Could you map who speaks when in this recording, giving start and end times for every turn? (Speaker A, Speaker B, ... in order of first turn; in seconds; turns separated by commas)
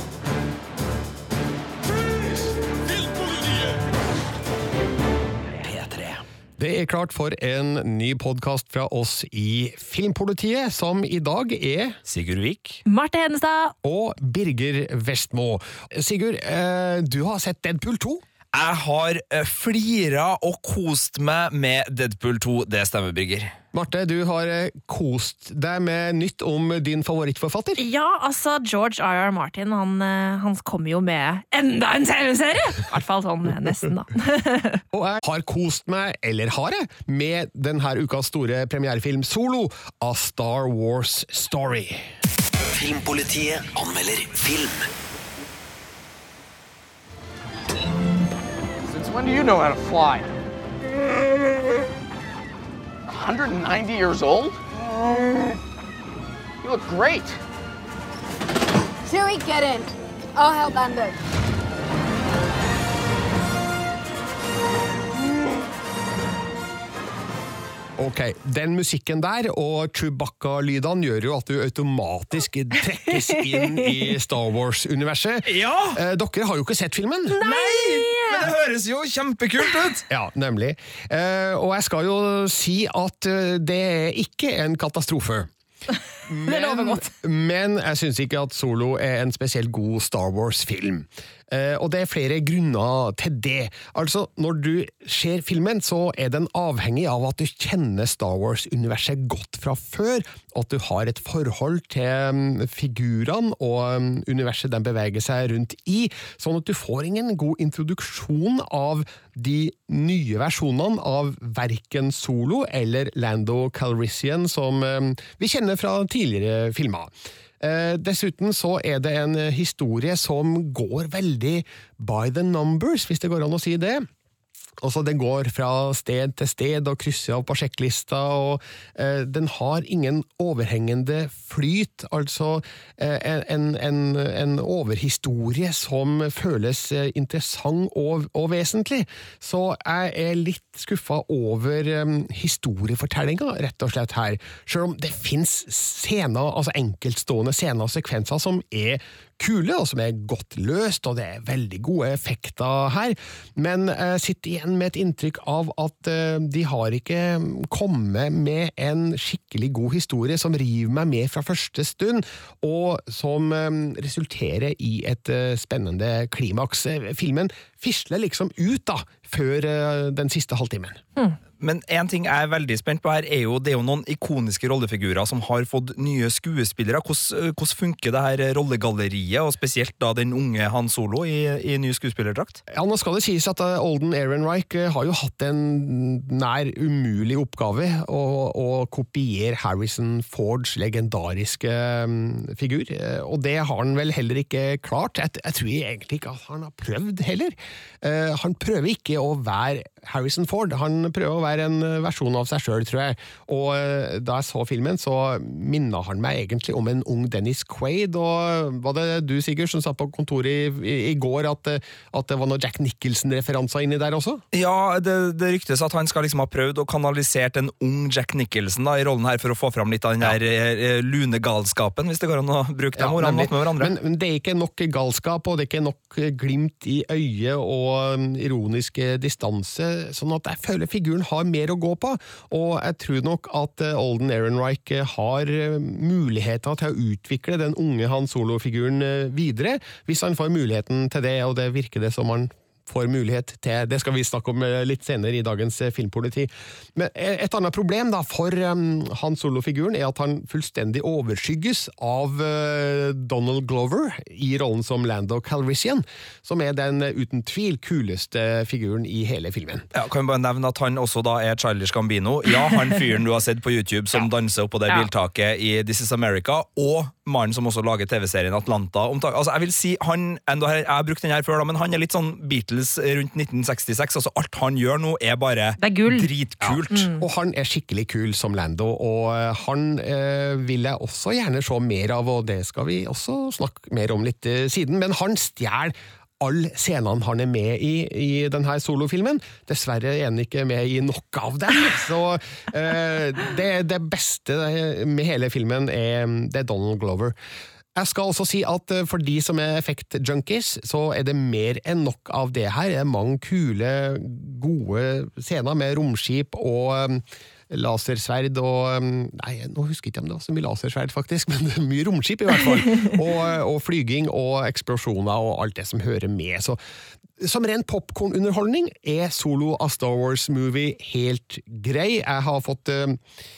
Speaker A: 6.6-12.0, Speaker B: 12.1-12.8, Speaker C: 12.8-13.7, Speaker A: 13.8-18.2, Speaker B: 18.5-23.5, Speaker A: 23.7-27.8, Speaker C: 27.8-34.8, Speaker A: 34.9-42.1, Speaker D: 42.7-44.9, Speaker E: 48.8-50.3, Speaker E: 53.1-54.6, Speaker E: 56.6-57.4, Speaker F: 59.0-61.1, Speaker A: 68.0-77.4, Speaker B: 75.5-76.0, Speaker C: 77.3-78.5, Speaker B: 77.4-80.0, Speaker A: 80.1-85.5, Speaker A: 86.2-124.1, Speaker C: 86.4-87.1, Speaker A: 124.8-171.0, Speaker B: 171.6-182.6, Speaker A: 182.7-214.4, Speaker B: 214.5-223.9, Speaker A: 222.9-259.9, Speaker B: 259.9-277.1, Speaker C: 275.8-276.3, Speaker A: 276.6-297.3, Speaker C: 276.9-277.2, Speaker A: 297.9-316.8, Speaker A: 317.4-323.2